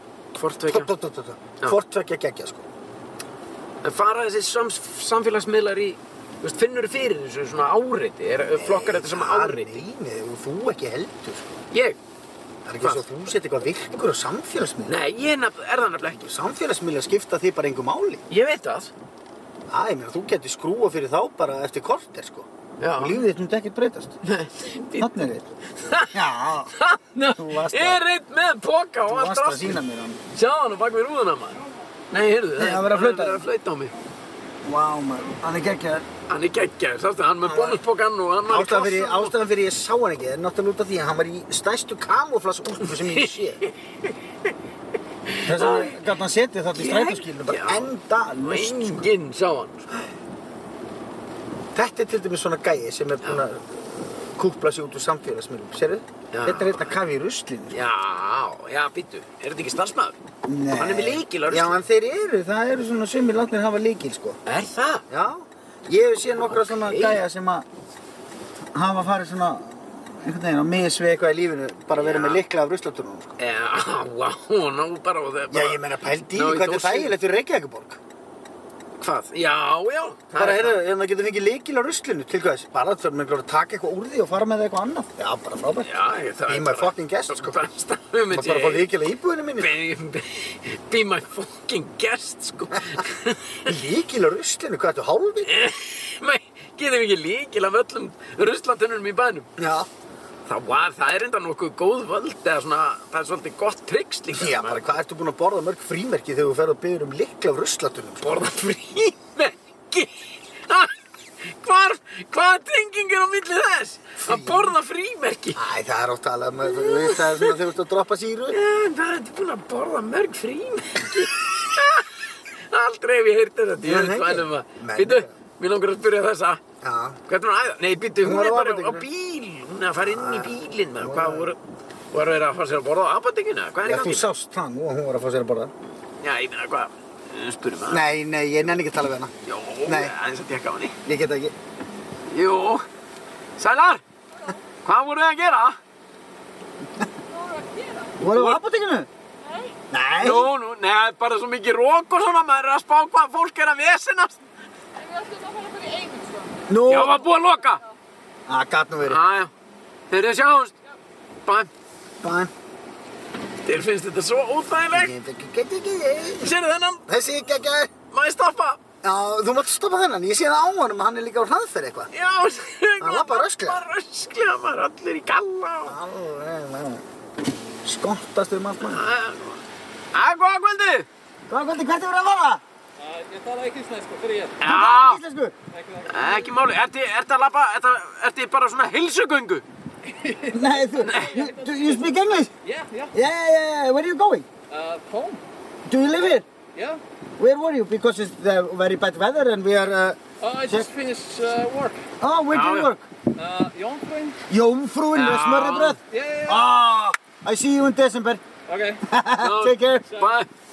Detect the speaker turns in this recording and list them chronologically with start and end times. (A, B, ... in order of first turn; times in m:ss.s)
0:00.4-0:00.9 A
0:00.7-0:02.6 B
0:03.8-0:09.8 A
0:08.5-0:11.6 B
0:11.7-0:12.0 A
0:12.6-0:15.0 B
0:14.8-0:16.3 A
0:16.2-0:18.2 B
0:18.3-0:18.9 A
0:19.7-0:24.2 B
0:22.8-0:23.2 A
0:24.2-0:26.2 A
0:25.0-0:25.5 B
0:26.0-0:26.7 B
0:26.7-0:29.8 A
0:27.3-0:28.0 B
0:29.1-0:30.2 B
0:30.3-0:33.9 A
0:32.6-0:33.4 B
0:34.6-0:36.0 B
0:36.3-0:39.4 A
0:37.4-0:37.8 B
0:38.5-0:43.6 B
0:42.9-0:44.1 A
0:45.3-0:46.0 A
0:45.4-0:49.1 B
0:46.7-0:49.9 A
0:51.7-0:57.8 B
0:56.3-0:57.0 A
0:57.7-1:00.2 A
1:00.4-1:04.4 B
1:00.7-1:01.8 A
1:04.4-1:05.0 A
1:05.1-1:07.6 B
1:06.4-1:07.2 A
1:08.7-1:13.4 B
1:11.9-1:12.4 A
1:13.4-1:17.2 A
1:15.5-1:18.0 B
1:19.0-1:20.8 A
1:20.4-1:25.9 B
1:25.8-1:28.9 A
1:26.5-1:27.6 B
1:28.3-1:29.7 B
1:29.6-1:33.6 A
1:33.6-1:35.6 B
1:35.4-1:39.5 A
1:39.6-1:39.9 B
1:40.5-1:45.0 A
1:44.3-1:48.4 B
1:48.2-1:55.6 A
1:54.2-1:54.7 B
1:55.6-1:58.6 B
1:56.7-1:57.6 A
1:58.5-2:06.6 A
2:03.8-2:05.3 B
2:06.8-2:07.2 B
2:07.3-2:11.6 A
2:08.1-2:09.0 B
2:10.0-2:11.5 B
2:12.1-2:14.3 A
2:13.8-2:15.7 B
2:16.2-2:18.0 A
2:17.9-2:19.3 B
2:19.4-2:21.0 A
2:19.8-2:20.1 B
2:21.0-2:21.5 B
2:22.3-2:22.8 A
2:23.6-2:24.0 A
2:24.7-2:25.8 A
2:27.6-2:28.0 C
2:28.2-2:29.1 B
2:28.3-2:28.6 A
2:29.9-2:30.5 B
2:30.2-2:34.4 A
2:35.1-2:36.5 C
2:36.7-2:37.2 B
2:36.9-2:37.8 A
2:38.5-2:39.2 B
2:39.0-2:39.5 A
2:40.1-2:40.8 A
2:42.2-2:42.5 B
2:43.6-2:45.1 A
2:44.9-2:46.6 B
2:46.4-2:47.1 A
2:47.1-2:47.9 B
2:48.1-2:48.8 A
2:49.0-2:52.1 B
2:52.1-2:56.0 A
2:53.0-2:53.8 B
2:55.8-2:57.0 B
2:57.8-2:59.0 B
2:58.8-2:59.6 A
3:00.1-3:01.1 A
3:01.5-3:02.6 B
3:03.0-3:04.6 C
3:04.6-3:05.2 A
3:04.6-3:05.5 B
3:05.7-3:06.5 C
3:06.0-3:09.6 A
3:10.1-3:12.0 C
3:10.5-3:12.5 B
3:11.0-3:11.4 A
3:12.6-3:13.1 C
3:13.1-3:14.5 B
3:14.7-3:15.4 C
3:15.9-3:16.5 B
3:16.7-3:17.0 C
3:17.4-3:20.9 B
3:20.4-3:22.0 C
3:22.2-3:23.1 B
3:22.5-3:22.9 A
3:23.4-3:24.4 C
3:24.5-3:28.4 B
3:25.1-3:26.0 A
3:26.1-3:26.7 C
3:28.7-3:29.0 C
3:29.0-3:30.2 B
3:29.4-3:30.5 A